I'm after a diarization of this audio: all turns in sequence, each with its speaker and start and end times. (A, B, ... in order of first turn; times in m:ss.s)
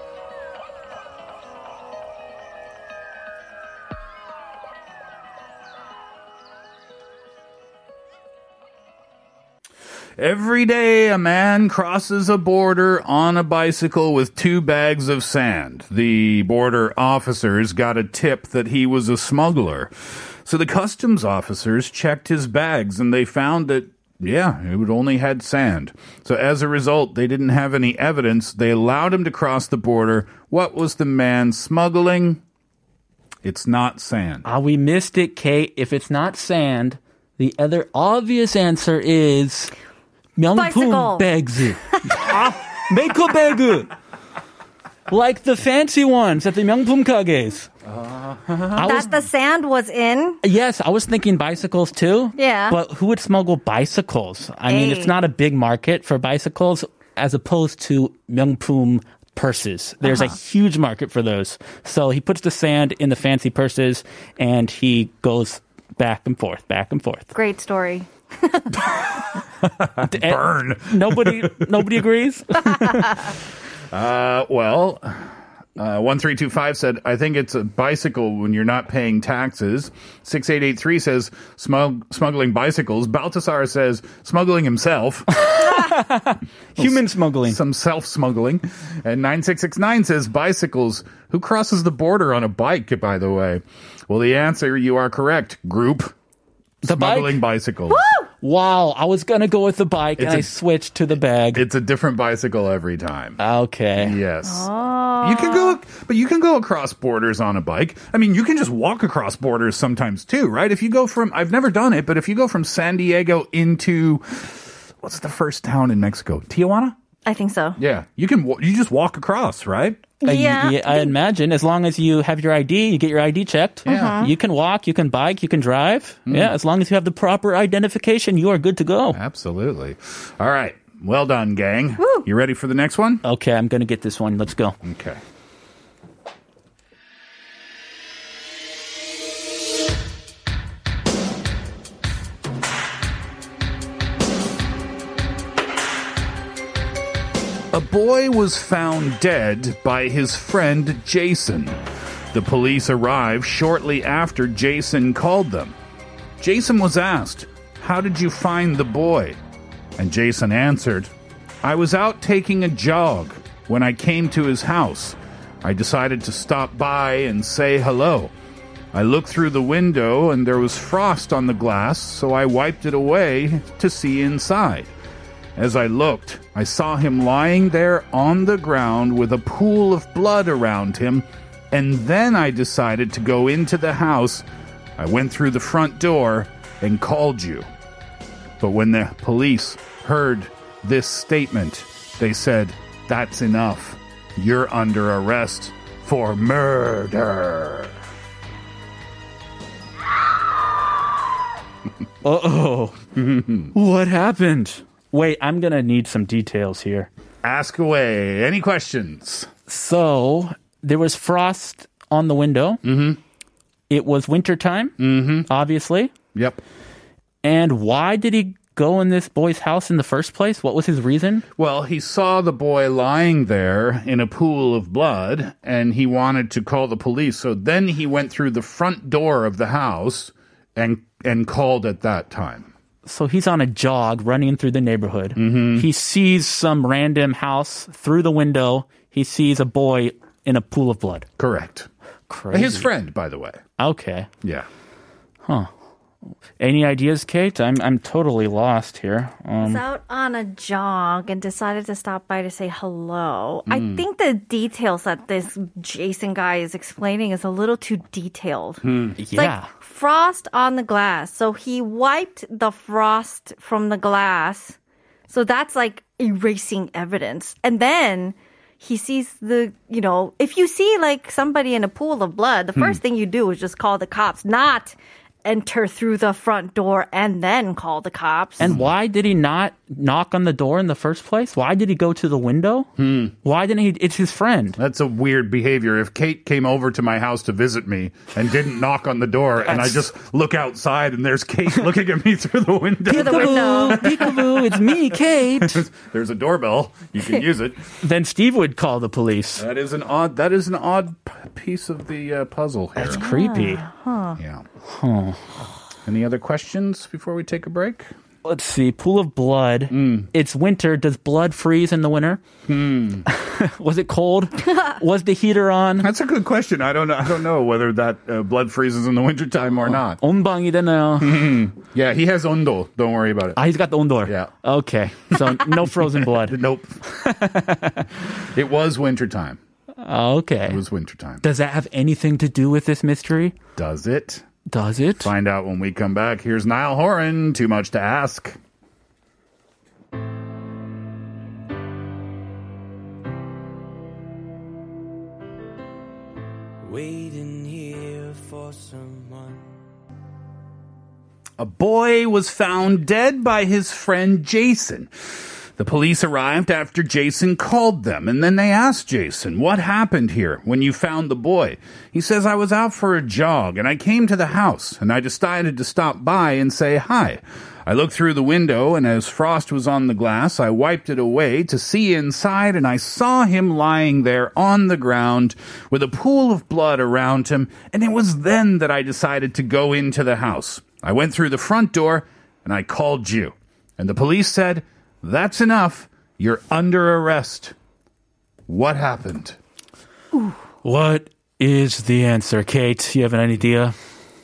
0:10.2-0:19.9 A
0:20.4-0:32.4 A
0:33.4-0:34.4 A
0:34.4-0:39.7 B
0:40.4-0:43.9 B
0:40.5-0:41.3 C
0:45.1-0:47.7 B
0:47.8-0:49.0 A
0:48.7-0:50.4 C
0:48.8-0:49.1 B
0:50.4-1:07.3 B
0:52.4-0:52.8 C
0:54.7-0:55.2 C
1:00.0-1:00.3 C
1:07.3-1:09.2 C
1:09.6-1:12.0 A
1:10.0-1:13.3 B
1:13.9-1:25.4 A
1:25.3-1:27.6 B
1:26.8-1:36.1 A
1:36.8-1:38.1 A
1:36.8-1:37.4 B
1:37.9-1:38.3 C
1:38.4-1:41.6 B
1:40.2-1:40.5 A
1:41.5-1:43.4 A
1:43.4-1:44.2 B
1:44.0-1:44.7 A
1:44.4-1:45.8 C
1:45.2-1:56.9 A
1:57.2-1:57.8 C
1:57.8-2:00.1 A
2:00.2-2:01.1 C
2:00.2-2:09.2 B
2:03.8-2:04.2 A
2:03.8-2:04.3 C
2:06.3-2:06.5 A
2:09.1-2:13.2 A
2:12.0-2:12.3 C
2:13.2-2:14.8 B
2:14.8-2:15.2 A
2:27.7-2:31.8 A
2:32.3-2:35.8 A
2:36.4-2:39.4 A
2:40.0-2:41.1 A
2:41.6-2:48.3 A
2:48.9-2:54.9 A
2:55.6-3:04.4 A
3:05.0-3:07.7 A
3:08.6-3:17.9 A
3:22.2-3:23.0 B
3:23.2-3:23.7 A
3:23.7-3:27.1 B
3:27.4-3:29.5 A
3:29.7-3:32.8 B
3:32.8-3:33.2 A
3:33.9-3:36.1 B
3:35.0-3:35.5 A
3:36.3-3:36.6 A
3:37.4-3:41.4 B
3:41.6-3:52.7 A
3:53.0-4:01.3 B
3:55.4-3:55.9 A
4:01.4-4:01.9 A
4:02.3-4:02.9 B
4:02.5-4:03.6 A
4:03.8-4:04.3 B
4:06.6-4:09.8 B
4:09.6-4:38.7 C
4:13.7-4:14.0 A
4:18.8-4:19.2 A
4:19.2-4:19.7 B
4:38.6-4:42.9 B
4:38.6-4:38.9 A
4:43.0-4:43.3 A
4:43.4-4:44.8 B
4:44.8-4:57.8 A
4:49.6-4:50.0 B
4:53.0-4:55.8 B
4:53.1-4:54.3 C
4:58.0-4:59.6 B
4:59.6-5:03.3 A
5:03.0-5:03.8 B
5:03.1-5:04.4 C
5:04.4-5:04.6 A
5:04.9-5:05.4 B
5:06.0-5:08.1 A
5:08.4-5:12.4 B
5:09.9-5:10.3 A
5:12.7-5:13.2 A
5:13.3-5:16.1 B
5:16.0-5:20.2 A
5:19.9-5:21.5 B
5:21.2-5:23.6 A
5:23.6-5:26.6 B
5:24.2-5:24.5 A
5:25.3-5:27.0 A
5:27.1-5:28.1 B
5:28.5-5:29.6 A
5:30.0-5:30.8 B
5:30.6-5:31.4 A
5:31.4-5:33.6 B
5:33.8-5:34.4 A
5:34.7-5:35.3 B
5:35.2-5:38.6 A
5:46.8-5:49.6 D
5:51.6-5:55.1 A
5:55.8-6:27.7 A
6:28.7-6:29.6 A
6:30.8-6:34.0 B